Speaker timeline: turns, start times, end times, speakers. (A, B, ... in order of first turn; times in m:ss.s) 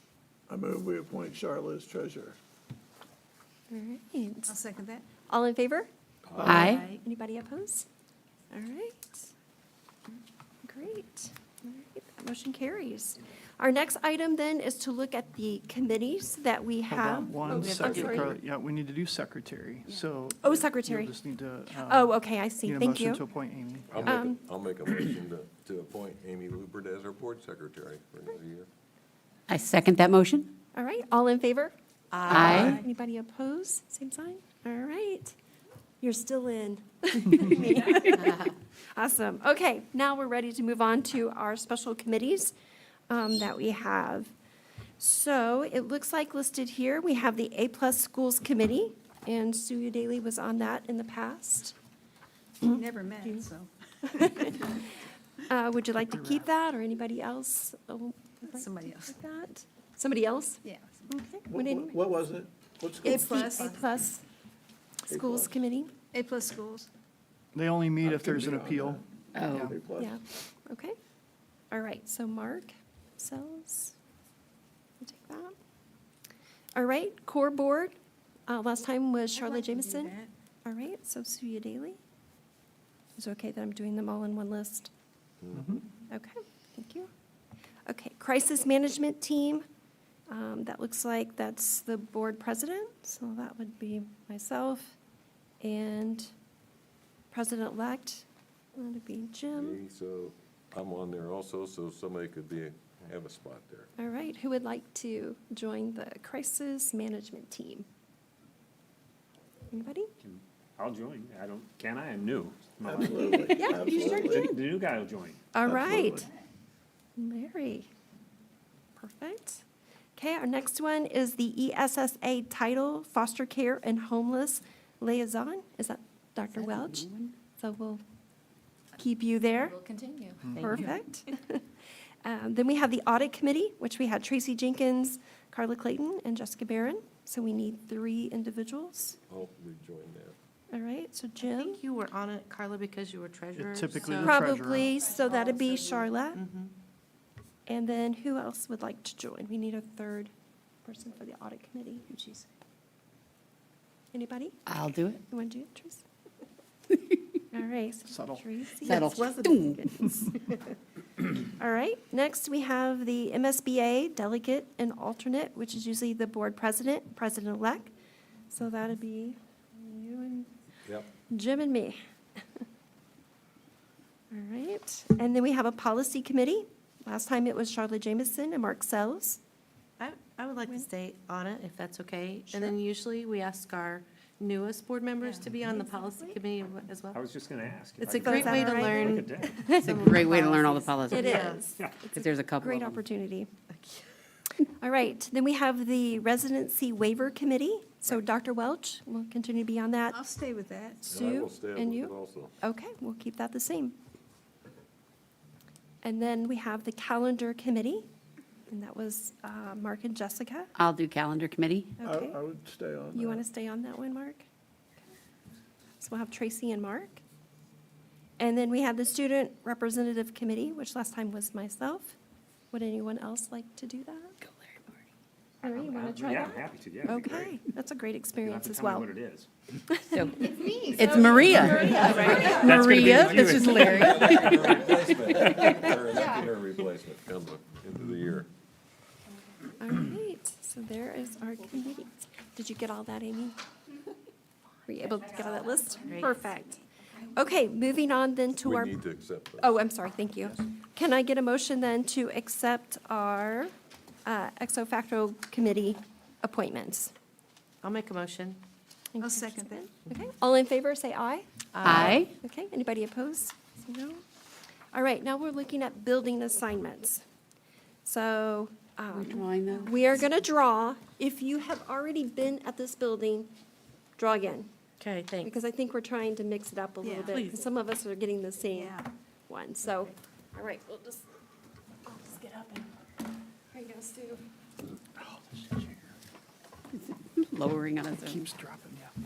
0:00.5-0:02.4 A
0:03.7-0:04.6 B
0:04.5-0:05.1 C
0:05.2-0:05.9 B
0:06.3-0:06.6 D
0:06.4-0:07.9 B
0:06.4-0:07.0 C
0:06.5-0:06.9 E
0:08.5-0:09.3 B
0:10.6-0:18.4 B
0:16.9-0:24.3 F
0:17.5-0:18.4 G
0:20.4-0:21.2 B
0:21.8-0:23.2 B
0:23.9-0:28.7 D
0:24.0-0:24.4 B
0:29.5-0:30.5 E
0:30.8-0:31.7 B
0:32.1-0:32.8 G
0:32.2-0:35.4 B
0:32.3-0:32.8 E
0:36.0-0:42.6 B
0:38.1-0:38.5 G
0:43.1-0:44.3 B
0:45.0-0:51.8 B
0:52.6-0:54.6 C
0:54.1-0:54.9 B
0:55.4-1:02.0 B
0:56.1-0:56.5 F
0:58.5-0:59.2 C
1:00.6-1:00.9 C
1:01.5-1:03.5 A
1:03.0-1:04.2 B
1:03.0-1:03.8 C
1:05.1-1:05.9 B
1:05.1-1:05.5 A
1:06.1-1:06.9 C
1:07.5-1:09.8 F
1:08.0-1:10.2 A
1:09.4-1:09.7 E
1:10.0-1:11.0 B
1:11.7-1:14.0 B
1:15.0-1:15.6 B
1:16.7-1:18.0 B
1:18.5-1:22.0 B
1:19.3-1:20.3 C
1:23.2-1:24.9 B
1:25.4-1:25.8 D
1:26.1-1:27.1 B
1:27.9-1:29.6 B
1:30.3-1:35.0 B
1:35.6-1:36.3 B
1:37.3-1:39.8 B
1:39.5-1:43.9 D
1:44.0-1:47.9 B
1:49.7-1:50.1 B
1:50.2-1:55.4 H
1:52.8-1:54.6 A
1:53.4-1:54.6 B
1:55.5-1:56.3 B
1:55.6-1:56.3 A
1:57.2-1:57.9 B
1:59.0-1:59.6 B
2:00.2-2:08.0 B
2:06.5-2:07.3 E
2:09.0-2:09.9 B
2:10.6-2:10.9 G
2:10.6-2:11.6 B
2:12.2-2:19.2 B
2:19.3-2:20.4 D
2:20.7-2:21.8 B
2:21.4-2:24.4 G
2:23.6-2:25.0 F
2:24.2-2:26.4 B
2:25.4-2:26.7 G
2:27.7-2:30.3 B
2:30.8-2:32.4 B
2:34.1-2:36.0 B
2:34.7-2:35.2 E
2:37.5-2:40.4 B
2:38.1-2:38.5 F
2:38.9-2:39.7 G
2:38.9-2:39.8 E
2:41.4-2:47.9 B
2:48.5-2:50.5 B
2:51.3-2:52.0 B
2:54.3-2:59.4 B
3:00.0-3:07.2 G
3:05.6-3:06.4 B
3:07.1-3:09.7 H
3:08.0-3:11.6 G
3:08.2-3:10.0 B
3:09.8-3:11.6 E
3:11.1-3:13.5 B
3:12.1-3:13.0 E
3:13.7-3:14.0 G
3:14.8-3:20.2 B
3:20.1-3:21.0 C
3:21.0-3:24.0 B
3:21.1-3:22.5 D
3:26.0-3:28.1 B
3:28.7-3:30.7 B
3:30.8-3:31.9 E
3:32.0-3:32.4 B
3:32.0-3:33.4 A
3:33.1-3:34.4 B
3:36.0-3:37.2 B
3:38.4-3:42.2 B
3:42.7-3:44.4 B
3:45.6-3:49.1 B
3:45.6-3:47.6 H
3:48.4-3:49.5 H
3:49.9-3:52.6 B
3:50.1-3:54.6 E
3:50.6-3:50.9 C
3:50.8-3:55.9 H
3:52.3-3:58.5 D
3:59.7-4:03.6 B
4:04.9-4:09.0 B
4:06.1-4:06.4 G
4:08.6-4:09.8 D
4:09.6-4:13.7 B
4:14.2-4:17.1 B
4:17.8-4:18.6 G
4:19.2-4:24.2 B
4:19.2-4:19.8 C
4:21.7-4:22.3 G
4:21.8-4:22.3 E
4:24.9-4:27.2 B
4:28.0-4:33.5 B
4:29.1-4:29.9 E
4:34.2-4:34.7 B
4:35.0-4:35.5 G
4:35.4-4:41.2 B
4:37.0-4:37.4 C
4:37.2-4:37.6 G
4:38.7-4:39.1 C
4:42.1-4:42.8 B
4:43.7-4:44.4 B
4:45.2-4:46.0 F
4:47.4-4:48.4 E
4:48.1-4:49.1 F